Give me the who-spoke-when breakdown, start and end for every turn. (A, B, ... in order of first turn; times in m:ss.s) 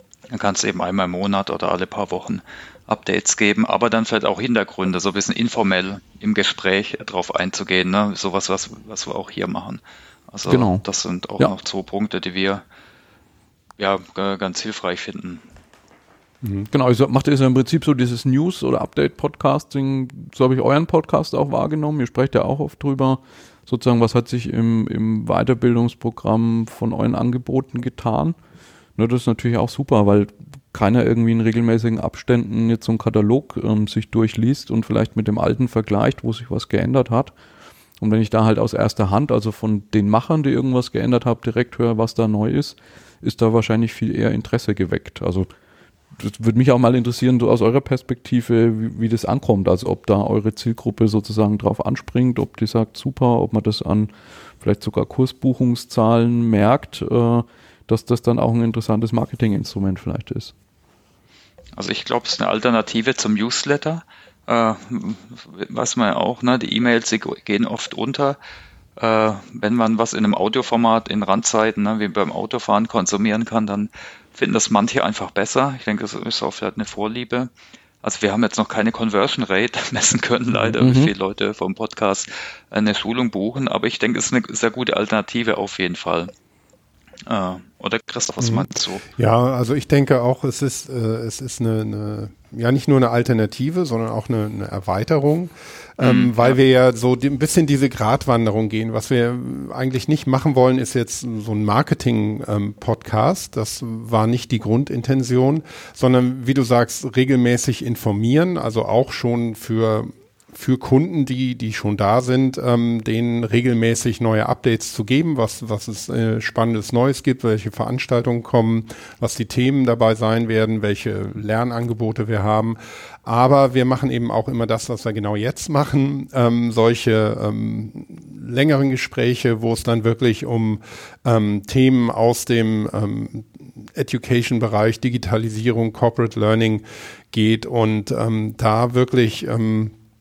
0:00.3-0:12.6 A
0:10.5-0:10.8 B
0:13.8-0:15.4 A
0:16.4-0:16.7 C
0:16.7-0:28.4 B
0:29.0-0:37.3 B
0:38.0-0:45.5 B
0:46.2-0:54.1 B
0:54.6-1:00.5 B
1:01.8-1:08.4 A
1:09.0-1:17.5 A
1:18.0-1:26.3 A
1:20.8-1:21.1 B
1:27.2-1:29.1 A
1:28.4-2:19.9 C
1:36.0-1:36.5 A